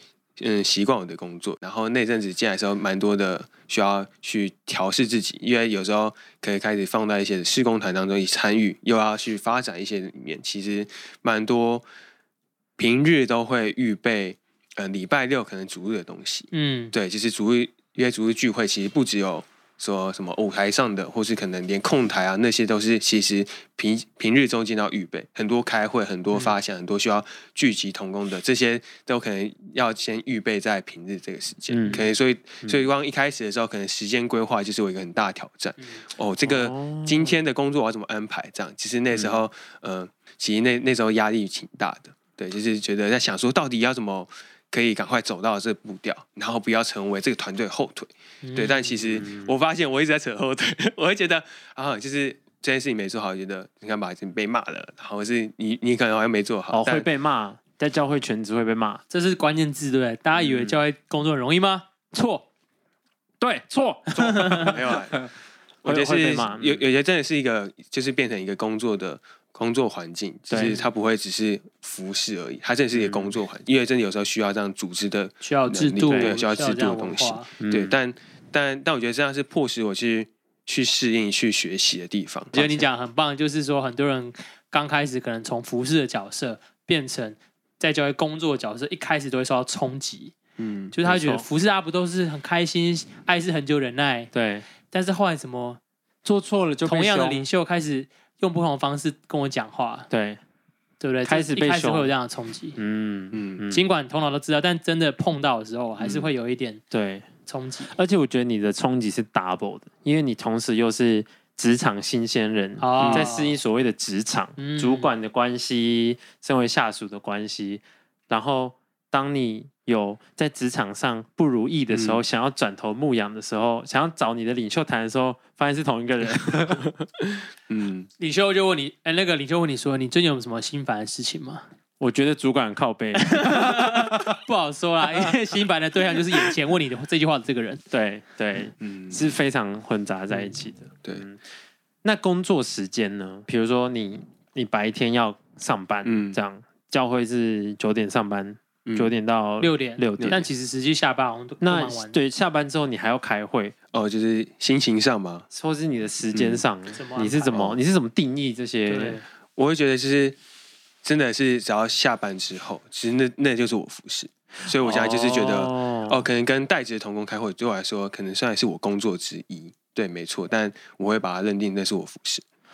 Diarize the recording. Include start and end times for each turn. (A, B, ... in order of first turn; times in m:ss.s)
0:00.4-0:11.9 A
0:12.8-0:57.1 A
0:16.5-0:16.9 B
0:31.7-0:32.1 C
0:36.4-0:37.4 C
0:39.1-0:39.4 C
0:48.4-0:49.2 B
0:49.1-0:49.5 C
0:56.7-0:59.0 C
0:59.1-1:02.5 B
1:00.4-1:00.8 C
1:03.4-1:05.3 C
1:04.1-1:04.8 B
1:04.2-1:05.2 A
1:05.8-1:06.8 C
1:05.8-1:22.8 A
1:10.5-1:10.8 C
1:13.0-1:13.4 C
1:15.4-1:17.5 B
1:16.1-1:16.4 C
1:17.6-1:18.0 C
1:22.5-1:30.3 B
1:30.6-1:31.0 A
1:30.9-1:34.3 B
1:31.0-1:31.5 C
1:34.3-1:34.6 C
1:34.9-1:35.8 B
1:36.2-1:37.5 C
1:36.8-1:40.1 B
1:40.1-1:40.4 C
1:41.0-1:42.8 B
1:41.2-1:42.1 C
1:42.8-1:43.9 C
1:43.3-1:43.6 A
1:43.7-1:46.8 B
1:46.0-1:46.3 A
1:46.9-1:47.3 C
1:47.5-1:47.9 B
1:47.9-2:06.9 C
1:52.8-1:53.6 B
1:53.0-1:53.3 A
1:54.6-1:55.1 B
2:01.9-2:02.2 A
2:06.7-2:08.1 A
2:08.2-2:11.6 B
2:12.0-2:14.3 C
2:13.2-2:17.8 B
2:17.9-2:21.4 C
2:18.8-2:19.3 A
2:22.0-2:30.4 C
2:26.0-2:26.4 A
2:28.8-2:29.1 A
2:29.6-2:32.2 B
2:30.2-2:30.4 A
2:31.6-2:33.8 C
2:33.9-2:35.5 A
2:35.5-2:39.2 C
2:36.3-2:36.6 A
2:36.9-2:37.7 B
2:37.5-2:37.8 A
2:38.9-2:39.2 B
2:39.6-2:40.4 A
2:41.0-2:52.4 A
2:44.7-2:46.2 C